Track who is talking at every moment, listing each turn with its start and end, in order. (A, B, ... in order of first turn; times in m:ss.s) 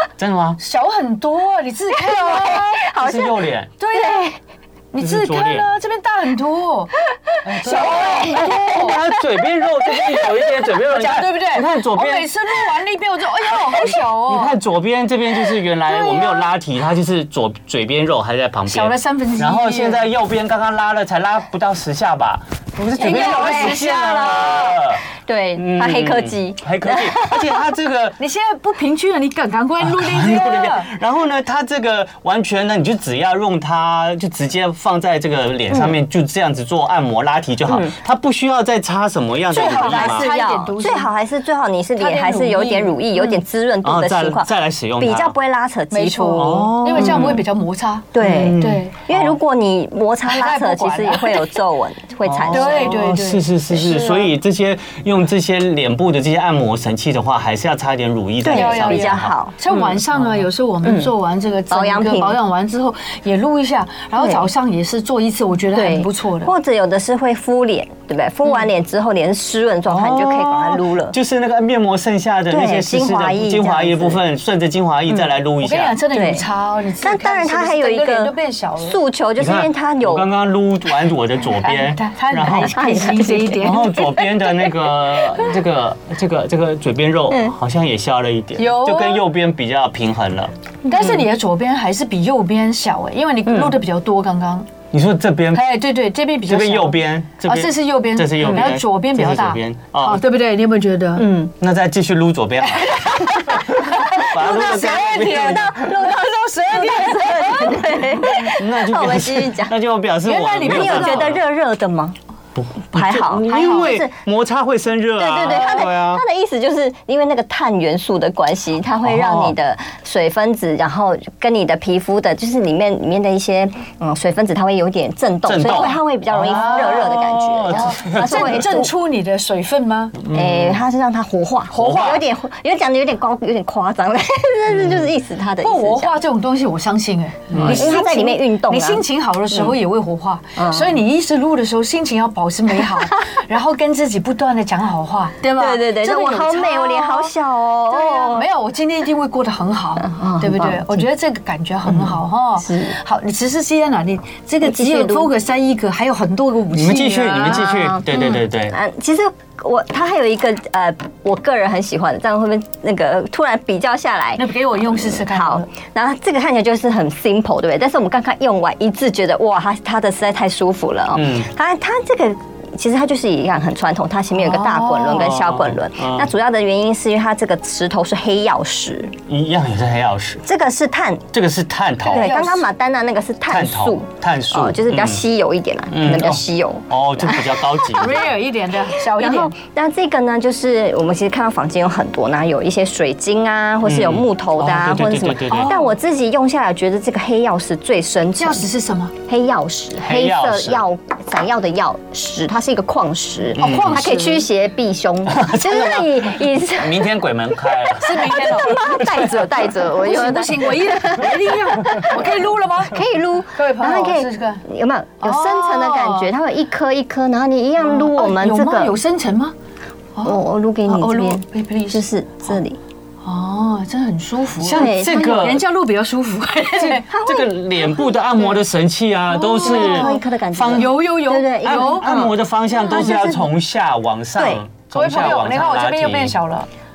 0:00.2-0:00.6 A
0:00.6-0:02.9 B
0:02.0-0:03.4 C
0:02.9-0:03.7 A
0:03.8-0:04.3 B
0:03.9-0:04.4 C
0:04.9-0:07.0 B
0:05.0-0:05.7 A
0:07.3-0:09.2 C
0:07.4-0:12.5 A
0:07.6-0:09.0 B
0:10.7-0:14.6 B
0:13.7-0:25.0 A
0:15.9-0:16.5 B
0:18.7-0:20.0 B
0:23.0-0:24.2 B
0:23.0-0:27.6 C
0:25.5-0:28.2 A
0:28.2-0:30.9 B
0:29.8-0:40.3 A
0:35.7-0:36.0 C
0:37.7-0:37.9 C
0:39.5-0:41.1 B
0:39.6-0:47.4 C
0:42.0-0:43.3 B
0:43.8-0:45.3 A
0:45.9-0:49.0 B
0:46.3-0:47.4 A
0:48.1-0:53.0 C
0:48.2-0:49.3 A
0:50.2-0:51.6 B
0:52.2-0:59.4 A
0:52.5-0:54.3 B
0:58.4-0:59.9 C
0:58.5-1:06.5 B
1:00.8-1:01.1 C
1:01.7-1:02.4 C
1:04.2-1:04.4 C
1:05.7-1:11.1 C
1:09.9-1:16.0 A
1:12.5-1:14.2 C
1:15.6-1:19.0 B
1:16.1-1:16.4 C
1:17.0-1:20.3 C
1:19.4-1:23.0 A
1:21.6-1:24.5 B
1:22.6-1:23.9 C
1:23.6-1:30.5 A
1:28.6-1:29.2 B
1:30.9-1:34.7 B
1:30.9-1:31.2 C
1:33.5-1:33.8 C
1:34.9-1:35.8 A
1:35.5-1:41.3 B
1:36.5-1:40.2 A
1:38.4-1:38.7 C
1:41.2-1:41.5 C
1:41.6-1:45.8 A
1:42.6-1:48.5 B
1:44.6-1:46.2 C
1:46.7-1:49.7 C
1:48.5-1:51.4 A
1:50.2-1:51.3 B
1:50.6-1:52.2 C
1:52.5-1:56.2 A
1:52.9-1:54.1 C
1:53.5-1:54.0 B
1:55.2-2:08.9 C
1:59.0-1:59.5 A
2:05.4-2:08.6 A
2:06.4-2:07.2 B
2:07.7-2:10.2 B
2:10.2-2:10.8 A
2:10.3-2:16.2 C
2:11.7-2:12.2 A
2:14.7-2:15.1 A
2:15.6-2:27.3 B
2:17.5-2:18.0 A
2:17.6-2:19.0 C
2:20.6-2:21.0 C
2:25.5-2:28.4 C
2:27.9-2:37.7 B
2:30.0-2:31.0 C
2:31.9-2:33.0 C
2:34.6-2:35.3 C
2:36.7-2:38.8 A
2:37.4-2:59.1 C
2:44.4-2:45.7 B
2:51.1-2:51.5 A
2:54.3-2:55.4 B
2:55.1-2:56.3 A
2:59.3-3:00.4 A
3:00.4-3:01.3 C
3:01.3-3:02.3 A
3:02.0-3:02.7 B
3:02.1-3:08.2 C
3:03.5-3:05.2 A
3:05.9-3:08.3 A
3:07.9-3:09.5 B
3:09.1-3:18.6 C
3:13.8-3:15.7 A
3:15.5-3:16.0 B
3:18.4-3:19.1 B
3:19.3-3:27.1 C
3:20.0-3:20.8 A
3:23.6-3:24.5 B
3:23.6-3:24.0 A
3:25.3-3:29.7 A
3:27.8-3:32.2 C
3:28.0-3:28.8 B
3:29.9-3:33.0 B
3:32.9-3:38.9 C
3:33.5-3:34.6 B
3:35.2-3:36.3 B
3:37.8-3:39.5 B
3:40.1-3:42.6 B
3:40.2-3:42.8 C
3:43.2-3:47.0 B
3:44.6-3:45.6 A
3:44.7-3:45.3 C
3:46.8-3:48.1 C
3:47.1-3:51.0 A
3:49.3-3:53.4 B
3:49.4-3:52.2 C
3:51.6-3:56.4 A
3:52.9-3:53.4 C
3:54.4-3:54.6 C
3:54.9-3:56.7 B